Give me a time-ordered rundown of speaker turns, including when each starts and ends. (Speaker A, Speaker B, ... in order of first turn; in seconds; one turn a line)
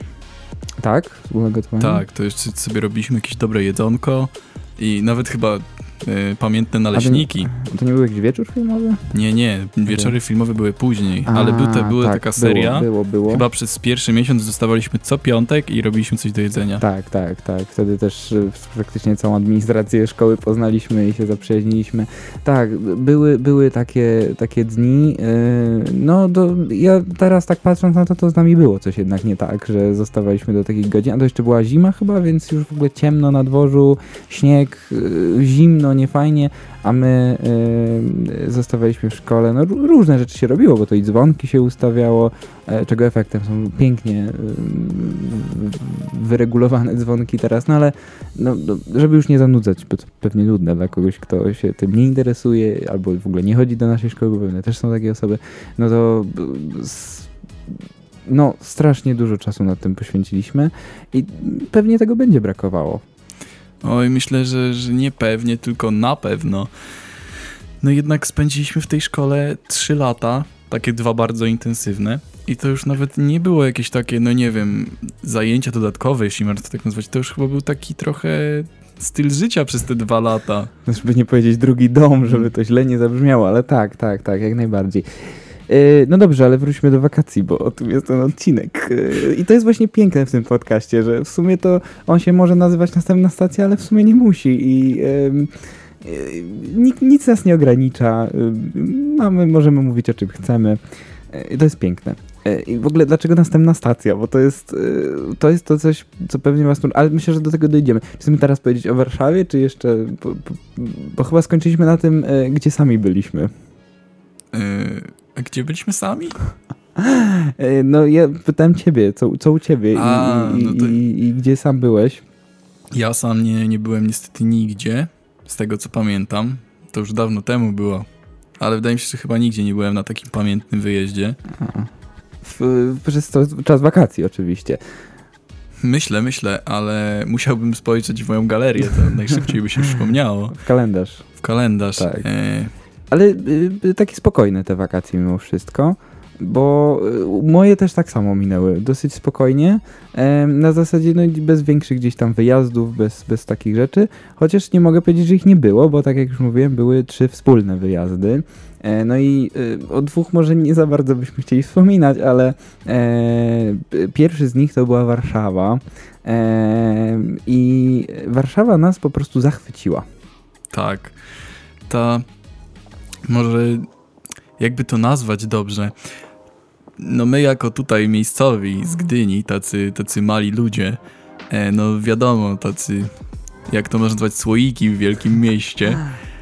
Speaker A: 0.8-2.0
Speaker B: 1.8-7.5
Speaker A: 6.9-9.0
Speaker B: 9.1-16.8
Speaker A: 9.9-10.1
Speaker A: 11.3-13.4
Speaker A: 16.8-57.3
Speaker A: 58.3-63.0
Speaker B: 63.8-66.7
Speaker B: 67.8-80.7
Speaker A: 80.9-95.5
Speaker A: 96.0-100.8
Speaker A: 101.3-113.5
Speaker B: 114.5-116.4
Speaker A: 117.0-122.2
Speaker B: 119.9-121.0
Speaker B: 122.9-128.1
Speaker B: 128.6-131.4
Speaker A: 131.6-131.9
Speaker A: 132.4-134.8
Speaker B: 135.8-140.6
Speaker A: 140.5-141.3
Speaker B: 141.4-142.7
Speaker A: 142.0-142.3
Speaker A: 143.1-170.0
Speaker B: 170.7-171.2
Speaker B: 171.9-172.3
Speaker B: 173.3-173.9
Speaker B: 174.6-175.9
Speaker B: 177.0-181.0
Speaker B: 181.5-183.1
Speaker B: 183.7-186.1